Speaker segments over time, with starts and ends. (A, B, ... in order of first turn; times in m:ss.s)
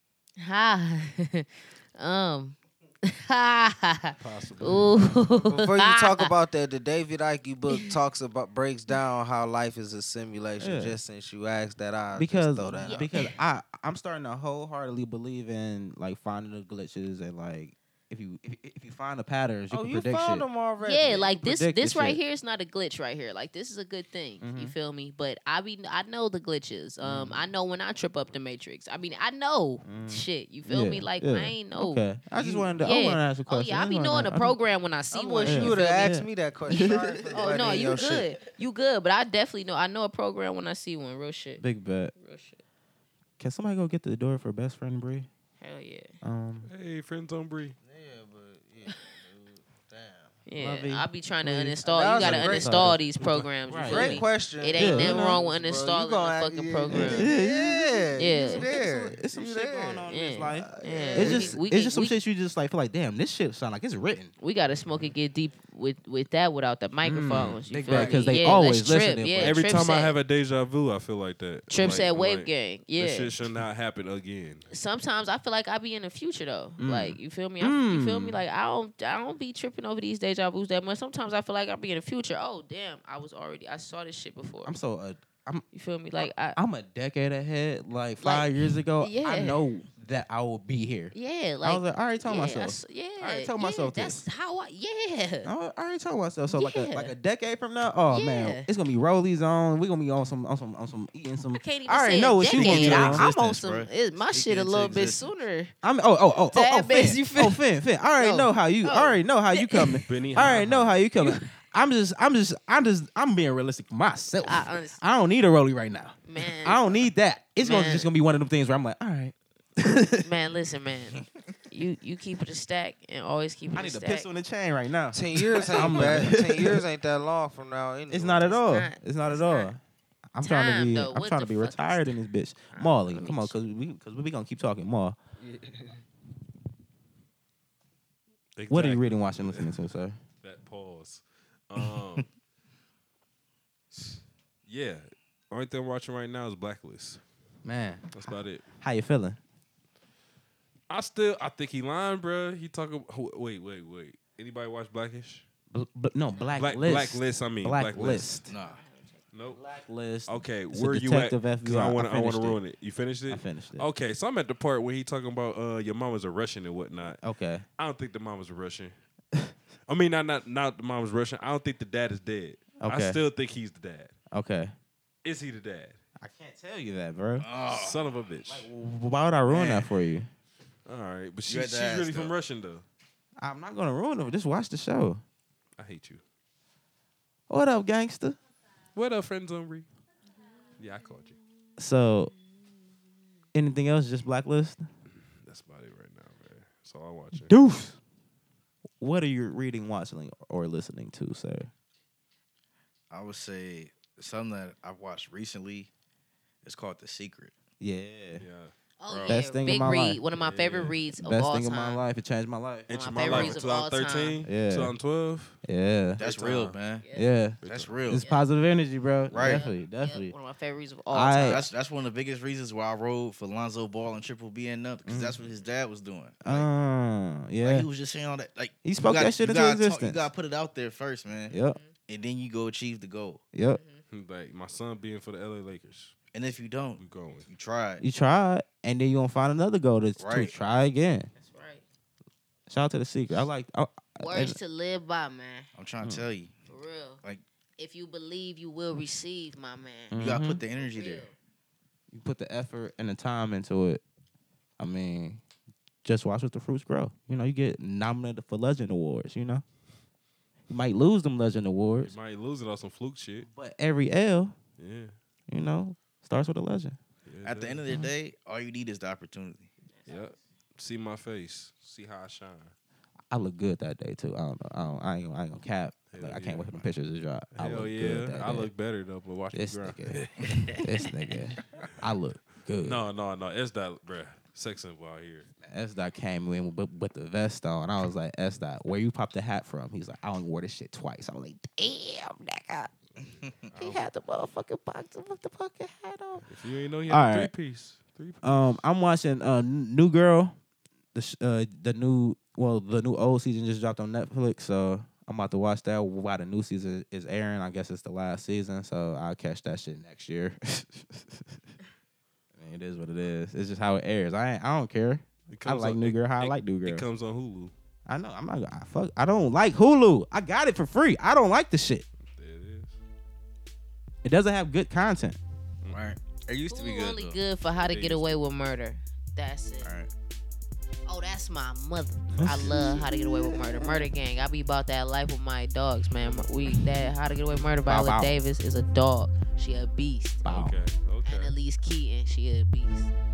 0:00.4-0:06.3 A
0:04.2-0:05.0 B
0:05.4-0:13.1 C
0:10.6-0:11.0 D
0:12.2-0:20.5 D
0:12.9-0:13.3 A
0:19.7-0:21.4 C
0:20.8-0:32.0 A
0:21.4-0:22.2 D
0:24.4-0:24.7 D
0:27.0-0:27.5 D
0:29.8-0:34.6 D
0:32.3-0:32.7 C
0:32.8-0:41.6 A
0:35.1-0:38.4 C
0:35.4-0:38.2 D
0:41.6-0:42.1 D
0:42.2-0:42.6 A
0:43.4-0:45.3 D
0:45.6-0:46.1 A
0:46.2-0:46.7 D
0:46.7-0:47.8 B
0:47.8-0:50.4 C
0:50.5-0:57.3 A
0:50.6-0:53.0 D
0:51.8-0:53.0 C
0:53.2-0:53.5 B
0:53.7-0:55.4 D
0:53.8-1:01.6 C
0:56.9-1:04.3 D
0:58.2-0:58.7 A
1:00.1-1:02.2 A
1:04.4-1:10.1 A
1:07.0-1:09.7 D
1:07.4-1:08.1 B
1:09.4-1:14.7 B
1:11.7-1:13.3 A
1:14.7-1:24.7 A
1:16.8-1:18.4 D
1:24.6-1:25.6 D
1:25.7-1:26.6 A
1:26.2-1:34.2 D
1:28.2-1:29.6 A
1:31.1-1:35.5 A
1:35.4-1:43.3 D
1:36.5-1:37.1 A
1:38.1-1:38.7 A
1:41.5-1:45.7 A
1:42.4-1:45.3 E
1:45.8-2:00.3 D
1:46.5-1:47.6 A
1:48.2-1:50.5 A
1:50.1-1:51.0 B
1:51.2-1:51.5 A
1:54.4-1:55.0 A
1:56.2-1:56.8 A
1:57.6-1:58.1 A
2:00.2-2:04.3 A
2:03.7-2:06.8 D
2:05.1-2:08.6 C
2:08.1-2:09.8 D
2:08.6-2:09.7 A
2:10.3-2:15.2 D
2:10.4-2:12.2 A
2:12.7-2:13.6 A
2:18.6-2:19.8 B
2:18.7-2:20.2 D
2:20.4-2:22.3 B
2:23.9-2:27.2 B
2:27.6-2:29.4 D
2:28.1-2:28.7 B
2:30.9-2:35.5 B
2:35.7-2:38.5 D
2:36.3-2:36.6 A
2:36.6-2:38.4 B
2:38.5-2:38.8 E
2:38.6-2:39.2 A
2:39.3-2:39.6 B
2:39.9-2:42.6 D
2:40.3-2:47.2 B
2:43.3-2:43.9 D
2:47.2-2:47.6 D
2:47.8-2:48.9 B
2:49.9-2:54.2 B
2:52.8-2:53.2 D
2:54.3-2:54.7 D
2:55.2-2:56.0 B
2:56.2-2:57.5 D
2:57.4-2:58.0 E
2:57.6-2:58.7 B
2:58.5-3:00.3 D
2:59.5-3:00.0 E
3:00.9-3:02.8 B
3:01.5-3:02.3 E
3:03.4-3:05.2 D
3:05.8-3:06.2 B
3:07.5-3:08.4 D
3:09.0-3:09.9 B
3:10.8-3:11.4 B
3:11.8-3:12.3 D
3:13.5-3:14.9 D
3:15.4-3:17.5 B
3:17.4-3:18.0 D
3:19.0-3:21.7 D
3:23.1-3:25.9 E
3:26.6-3:27.5 E
3:27.8-3:28.4 D
3:28.4-3:28.7 B
3:29.0-3:32.0 A
3:29.1-3:29.4 E
3:29.3-3:30.2 D
3:30.3-3:31.0 B
3:31.1-3:33.6 D
3:32.9-3:35.6 B
3:32.9-3:34.5 A
3:33.3-3:33.6 E
3:34.4-3:35.0 D
3:35.6-3:40.3 D
3:36.2-3:37.1 E
3:37.0-3:37.4 A
3:37.6-3:38.0 B
3:37.6-3:38.3 E
3:38.2-3:38.5 A
3:39.3-3:39.7 E
3:39.3-3:41.7 A
3:41.1-3:41.6 D
3:41.4-3:46.7 E
3:45.0-3:45.4 D
3:46.4-3:47.9 D
3:47.6-3:51.5 E
3:48.8-3:50.3 D
3:51.5-3:51.8 D
3:51.5-3:51.9 A
3:52.1-3:53.4 E
3:53.5-3:53.8 D
3:53.7-3:54.0 A
3:54.1-3:56.2 B
3:56.3-3:58.0 E
3:57.0-3:57.5 B
3:58.0-4:01.3 D
4:00.2-4:00.6 E
4:01.4-4:01.8 A
4:02.7-4:04.6 D
4:04.2-4:05.7 A
4:05.8-4:06.5 E
4:06.7-4:07.2 A
4:07.8-4:10.2 A
4:10.1-4:10.6 D
4:10.2-4:11.3 E
4:10.7-4:11.4 A
4:12.1-4:14.0 D
4:14.8-4:15.4 D
4:16.0-4:19.6 D
4:20.7-4:22.2 D
4:22.0-4:23.5 B
4:23.4-4:24.6 D
4:24.8-4:25.1 B
4:25.5-4:27.0 D
4:27.3-4:27.8 B
4:27.4-4:29.7 E
4:30.1-4:32.7 B
4:33.3-4:38.7 D
4:36.1-4:36.9 B
4:37.6-4:41.1 B
4:39.5-4:43.0 D
4:42.8-4:45.5 B
4:45.7-4:52.9 D
4:53.3-4:53.7 E
4:53.7-4:54.0 B
4:53.8-4:56.5 D
4:56.4-4:58.8 B
4:57.1-4:57.5 D
4:58.4-5:00.6 D
5:01.2-5:11.6 D
5:12.6-5:17.0 D
5:15.5-5:17.7 B
5:18.1-5:22.1 D
5:22.2-5:23.0 B
5:24.2-5:25.4 D
5:25.8-5:26.1 B
5:25.9-5:27.4 E
5:26.7-5:29.9 A
5:27.8-5:28.4 B
5:29.8-5:30.1 E
5:31.1-5:40.5 A
5:32.4-5:33.1 D
5:37.9-5:38.4 D
5:40.4-5:40.8 D
5:40.5-5:41.6 B
5:41.2-5:43.1 A